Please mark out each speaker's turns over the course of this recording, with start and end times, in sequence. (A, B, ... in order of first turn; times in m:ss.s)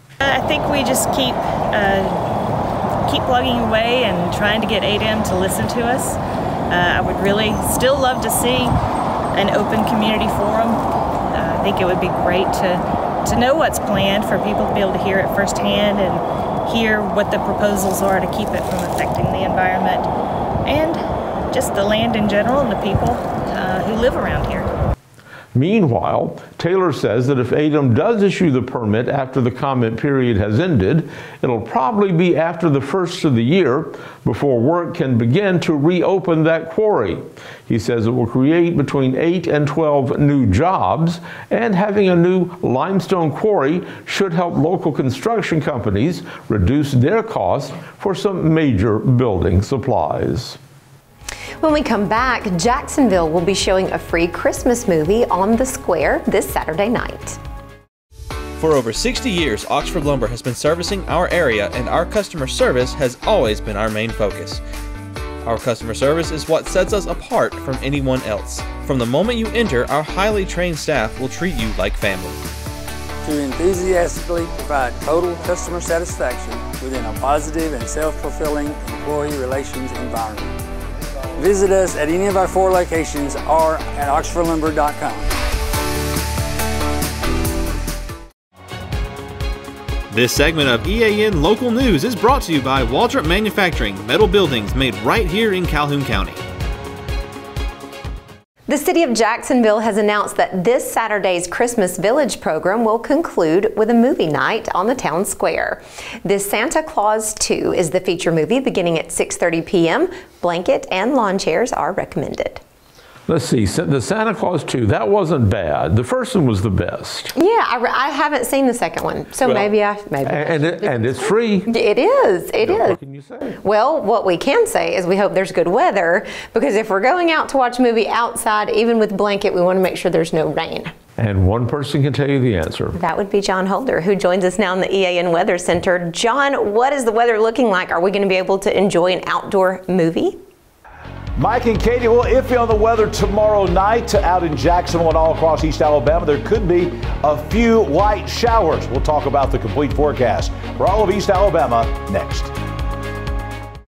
0:00.2-0:02.2 A
0:03.0-0:08.8 A
0:09.3-0:20.1 A
0:20.6-0:24.7 A
0:25.5-0:50.6 B
0:51.6-0:57.4 C
0:58.6-1:04.6 D
1:05.4-1:12.4 D
1:13.2-1:20.5 E
1:21.4-1:25.3 E
1:30.1-1:36.4 D
1:38.7-1:52.6 C
1:53.3-1:57.3 B
1:57.3-2:03.0 C
1:59.4-1:59.7 B
2:00.2-2:01.7 B
2:02.6-2:03.6 B
2:03.6-2:10.9 C
2:11.2-2:13.0 B
2:13.0-2:20.4 C
2:21.4-2:32.5 F